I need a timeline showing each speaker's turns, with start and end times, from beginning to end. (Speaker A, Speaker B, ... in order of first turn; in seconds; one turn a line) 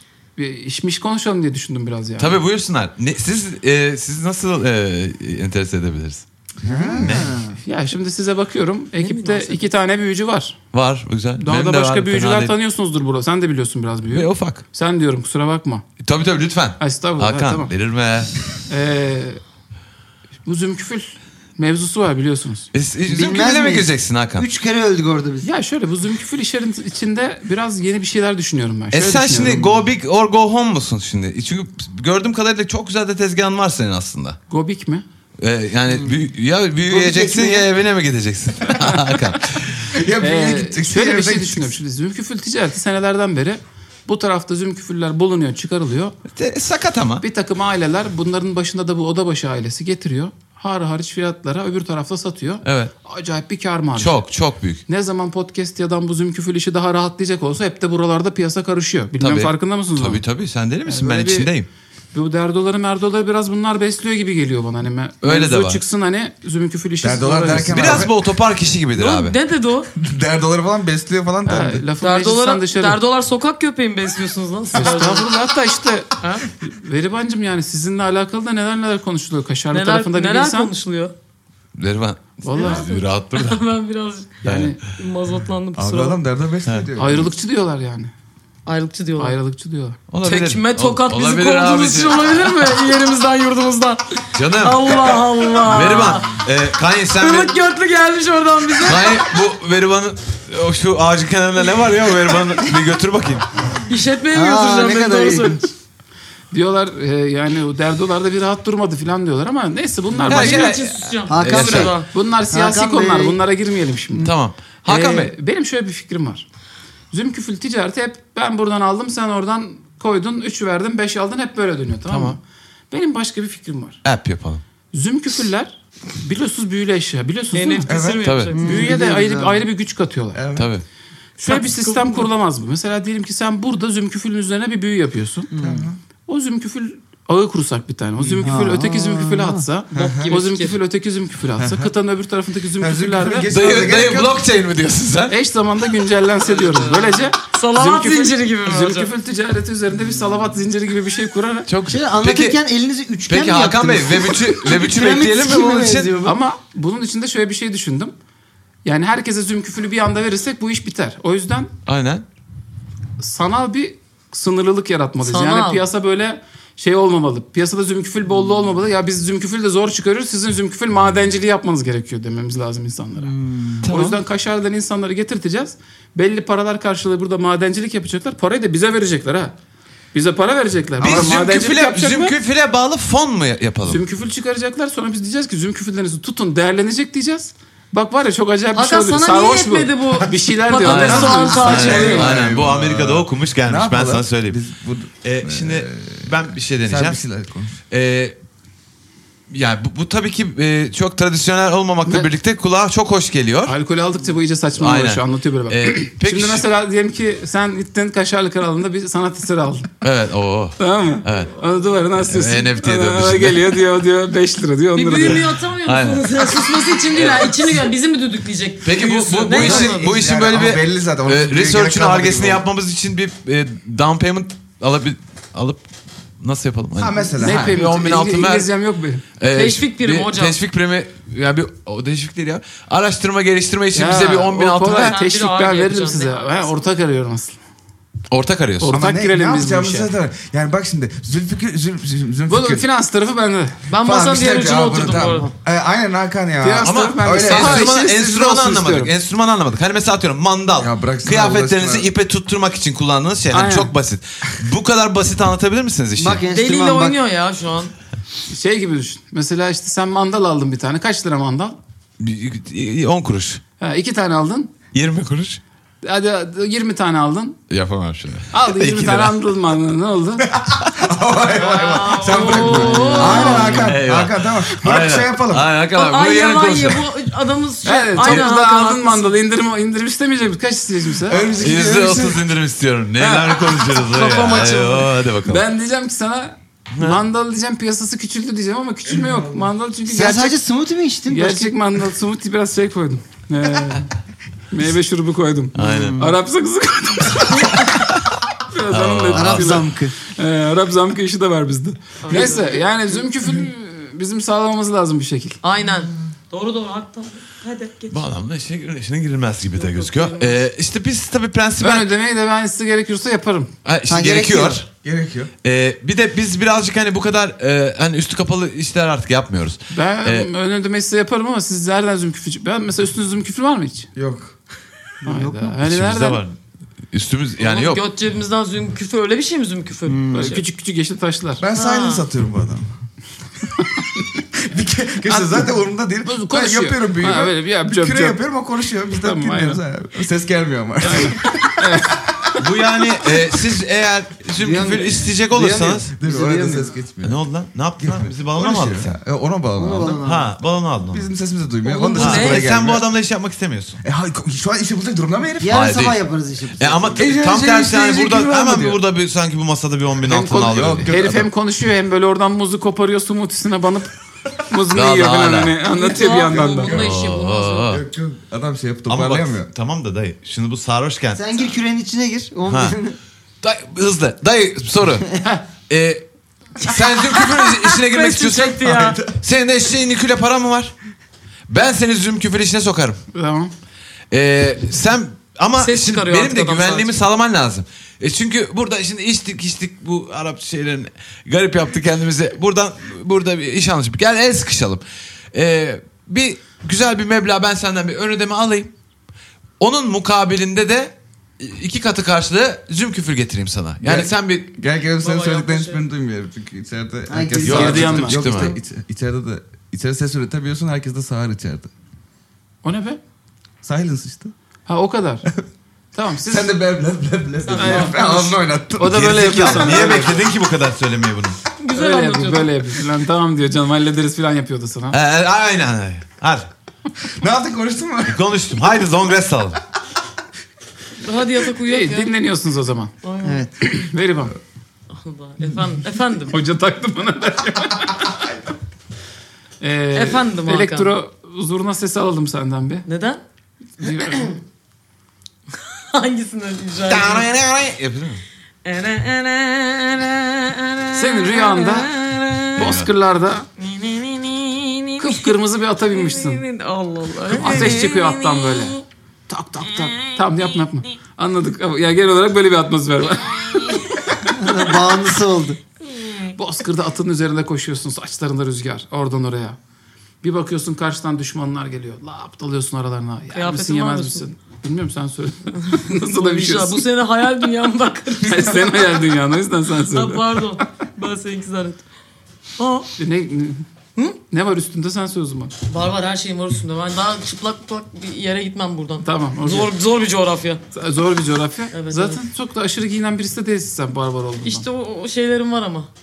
Speaker A: 0.4-2.4
Speaker B: 2.2-6.2
Speaker C: 6.6-7.3
Speaker D: 6.6-7.6
Speaker B: 7.0-7.3
Speaker A: 7.6-10.6
Speaker E: 9.0-9.7
Speaker B: 10.7-12.5
Speaker A: 11.4-15.8
Speaker B: 14.1-14.6
Speaker B: 16.0-18.3
Speaker A: 16.8-17.7
Speaker A: 18.7-19.4
Speaker A: 20.5-22.7
Speaker B: 22.7-24.5
Speaker D: 23.1-25.5
Speaker A: 25.4-29.7
Speaker B: 28.9-34.4
Speaker D: 29.4-29.7
Speaker A: 34.5-35.0
Speaker B: 35.4-39.9
Speaker D: 35.9-36.2
Speaker D: 36.9-37.6
Speaker C: 37.0-37.6
Speaker C: 39.9-41.7
Speaker A: 40.2-46.2
Speaker B: 46.3-47.2
Speaker A: 47.2-54.2
Speaker B: 52.6-52.9
Speaker B: 54.0-54.8
Speaker A: 54.9-60.2
Speaker B: 59.2-61.7
Speaker A: 60.9-61.5
Speaker A: 62.1-68.1
Speaker B: 65.2-65.8
Speaker C: 67.0-68.1
Speaker B: 67.7-69.4
Speaker E: 69.0-69.9
Speaker C: 70.0-71.8
Speaker A: 71.5-73.0
Speaker E: 72.0-75.3
Speaker A: 74.7-76.1
Speaker E: 76.2-76.5
Speaker A: 76.6-80.7
Speaker E: 79.7-81.1
Speaker B: 81.8-83.6
Speaker A: 82.4-82.9
Speaker E: 82.5-86.2
Speaker A: 84.4-84.8
Speaker B: 84.4-84.8
Speaker C: 85.8-87.3
Speaker A: 87.0-88.1
Speaker E: 88.7-89.4
Speaker A: 89.2-90.0
Speaker B: 90.1-92.6
Speaker E: 90.2-96.4
Speaker B: 94.3-97.5
Speaker E: 97.1-99.3
Speaker B: 98.8-103.5
Speaker E: 103.9-105.7
Speaker D: 104.3-105.7
Speaker A: 106.5-114.3
Speaker E: 110.3-112.1
Speaker B: 110.3-111.9
Speaker D: 111.3-113.4
Speaker B: 114.2-115.3
Speaker A: 114.9-116.5
Speaker A: 117.1-122.4
Speaker B: 122.1-122.4
Speaker A: 122.9-124.0
Speaker B: 124.0-124.6
Speaker A: 124.9-127.9
Speaker E: 127.5-129.0
Speaker C: 127.9-128.4
Speaker B: 128.2-128.5
Speaker D: 128.5-129.6
Speaker A: 128.6-130.4
Speaker C: 130.3-130.7
Speaker B: 130.6-130.8
Speaker A: 131.4-135.5
Speaker E: 131.4-132.3
Speaker D: 135.5-135.9
Speaker C: 135.6-136.0
Speaker A: 136.3-143.5
Speaker C: 138.2-138.6
Speaker D: 138.4-139.6
Speaker C: 139.9-140.3
Speaker E: 139.9-140.8
Speaker C: 141.6-141.9
Speaker C: 142.8-144.4
Speaker B: 143.5-145.4
Speaker A: 145.3-151.7
Speaker E: 146.5-149.1
Speaker B: 151.7-152.6
Speaker D: 151.9-156.4
Speaker B: 153.3-156.1
Speaker A: 156.2-158.1
Speaker A: 158.8-161.7
Speaker B: 161.9-162.2
Speaker A: 163.2-173.3
Speaker E: 165.2-165.8
Speaker D: 173.2-173.8
Speaker B: 173.8-174.2
Speaker A: 173.8-179.5
Speaker A: 180.1-182.3
Speaker B: 181.0-184.0
Speaker C: 181.0-181.3
Speaker A: 183.9-192.3
Speaker E: 188.8-192.4
Speaker B: 190.8-194.6
Speaker C: 191.5-196.3
Speaker B: 195.2-197.2
Speaker C: 196.8-197.8
Speaker B: 197.9-198.4
Speaker B: 199.5-203.8
Speaker A: 203.7-209.9
Speaker B: 204.8-206.7
Speaker B: 210.0-211.5
Speaker A: 210.8-215.4
Speaker B: 212.3-213.8
Speaker E: 214.9-220.1
Speaker B: 215.3-217.8
Speaker B: 218.8-225.8
Speaker C: 219.3-222.7
Speaker B: 226.4-228.7
Speaker C: 227.0-227.8
Speaker A: 227.4-229.2
Speaker B: 229.4-235.2
Speaker E: 229.5-230.6
Speaker A: 233.9-237.6
Speaker E: 235.0-236.7
Speaker B: 238.3-238.9
Speaker A: 238.8-240.1
Speaker C: 238.9-242.8
Speaker A: 242.5-243.8
Speaker E: 243.9-245.5
Speaker C: 244.0-247.9
Speaker A: 246.6-249.1
Speaker B: 246.8-256.4
Speaker D: 247.6-247.9
Speaker C: 250.8-252.1
Speaker A: 253.5-253.9
Speaker D: 256.2-257.2
Speaker E: 256.5-257.9
Speaker A: 258.5-261.8
Speaker B: 262.2-263.6
Speaker A: 263.8-264.7
Speaker B: 264.9-265.6
Speaker A: 266.0-267.6
Speaker B: 267.7-269.4
Speaker A: 268.5-270.5
Speaker C: 270.5-275.7
Speaker E: 271.6-273.9
Speaker A: 271.7-273.9
Speaker B: 273.2-277.1
Speaker E: 275.9-279.4
Speaker A: 277.8-281.4
Speaker C: 281.2-282.5
Speaker B: 281.6-285.6
Speaker E: 284.1-285.1
Speaker A: 285.4-290.6
Speaker B: 286.9-287.2
Speaker C: 289.1-289.7
Speaker D: 290.1-291.7
Speaker A: 291.3-294.1
Speaker A: 294.7-297.9
Speaker B: 295.8-296.3
Speaker D: 295.8-296.4
Speaker A: 298.7-305.6
Speaker B: 298.9-299.9
Speaker D: 299.4-300.1
Speaker E: 302.2-302.9
Speaker E: 305.6-308.2
Speaker B: 308.1-312.1
Speaker E: 309.8-310.6
Speaker A: 311.8-313.7
Speaker B: 313.9-314.9
Speaker D: 314.1-314.8
Speaker C: 315.0-315.5
Speaker B: 315.6-320.5
Speaker A: 319.9-324.1
Speaker C: 324.2-324.6
Speaker D: 325.2-325.7
Speaker A: 325.2-326.4
Speaker B: 325.8-326.6
Speaker B: 327.1-328.0
Speaker E: 327.6-330.6
Speaker D: 330.1-330.6
Speaker A: 330.3-331.6
Speaker C: 331.6-332.9
Speaker E: 331.7-332.2
Speaker C: 334.6-342.3
Speaker A: 335.3-335.7
Speaker A: 336.2-338.4
Speaker A: 339.1-339.8
Speaker A: 341.0-342.6
Speaker B: 342.6-346.1
Speaker D: 344.6-346.9
Speaker C: 346.1-347.4
Speaker B: 347.2-349.1
Speaker C: 348.0-350.2
Speaker D: 349.8-350.5
Speaker B: 350.2-351.3
Speaker C: 351.1-353.1
Speaker E: 351.9-352.7
Speaker B: 352.1-354.0
Speaker C: 354.0-355.9
Speaker D: 355.6-357.4
Speaker B: 355.7-356.2
Speaker B: 356.8-361.1
Speaker C: 357.2-359.0
Speaker A: 360.2-364.1
Speaker C: 360.6-361.5
Speaker A: 364.7-366.9
Speaker B: 364.9-365.8
Speaker E: 365.9-368.0
Speaker C: 366.5-367.1
Speaker B: 366.9-368.0
Speaker C: 367.9-369.7
Speaker B: 369.1-371.4
Speaker D: 371.4-373.2
Speaker B: 372.7-372.9
Speaker B: 373.6-376.2
Speaker B: 376.8-380.9
Speaker E: 376.9-379.2
Speaker B: 381.7-383.2
Speaker A: 383.3-383.7
Speaker B: 384.3-398.9
Speaker E: 385.8-387.1
Speaker B: 399.8-404.7
Speaker C: 404.0-411.9
Speaker E: 405.2-406.0
Speaker D: 407.3-408.8
Speaker B: 407.6-408.8
Speaker A: 407.6-408.4
Speaker A: 412.8-413.2
Speaker C: 413.8-414.5
Speaker A: 414.9-415.5
Speaker A: 416.1-416.7
Speaker C: 416.5-420.1
Speaker E: 417.6-418.2
Speaker A: 417.8-420.4
Speaker B: 419.1-421.6
Speaker E: 421.8-422.7
Speaker A: 421.9-425.2
Speaker B: 425.1-426.7
Speaker C: 427.3-428.4
Speaker B: 428.3-429.8
Speaker E: 431.2-432.3
Speaker A: 431.8-433.2
Speaker E: 433.2-433.6
Speaker D: 433.4-433.7
Speaker A: 433.8-434.6
Speaker E: 435.1-436.6
Speaker A: 436.5-438.6
Speaker A: 439.8-443.1
Speaker E: 440.1-441.1
Speaker E: 443.1-443.4
Speaker A: 444.0-444.6
Speaker E: 444.1-444.6
Speaker E: 445.7-447.5
Speaker B: 447.1-448.4
Speaker E: 448.8-453.0
Speaker A: 451.1-452.1
Speaker A: 452.7-453.6
Speaker B: 452.8-453.1
Speaker E: 453.8-455.6
Speaker A: 455.2-456.6
Speaker E: 456.1-459.0
Speaker A: 457.5-464.1
Speaker B: 457.6-458.0
Speaker E: 460.0-460.7
Speaker E: 463.8-464.0
Speaker D: 464.4-465.8
Speaker E: 466.1-466.5
Speaker A: 466.6-469.8
Speaker A: 470.4-477.1
Speaker E: 473.5-474.5
Speaker E: 475.7-479.4
Speaker A: 478.5-480.9
Speaker E: 480.0-482.0
Speaker E: 482.8-483.1
Speaker A: 483.2-483.8
Speaker A: 484.5-485.7
Speaker E: 485.9-490.8
Speaker A: 489.2-489.9
Speaker A: 490.9-494.9
Speaker E: 491.9-492.4
Speaker E: 494.6-496.1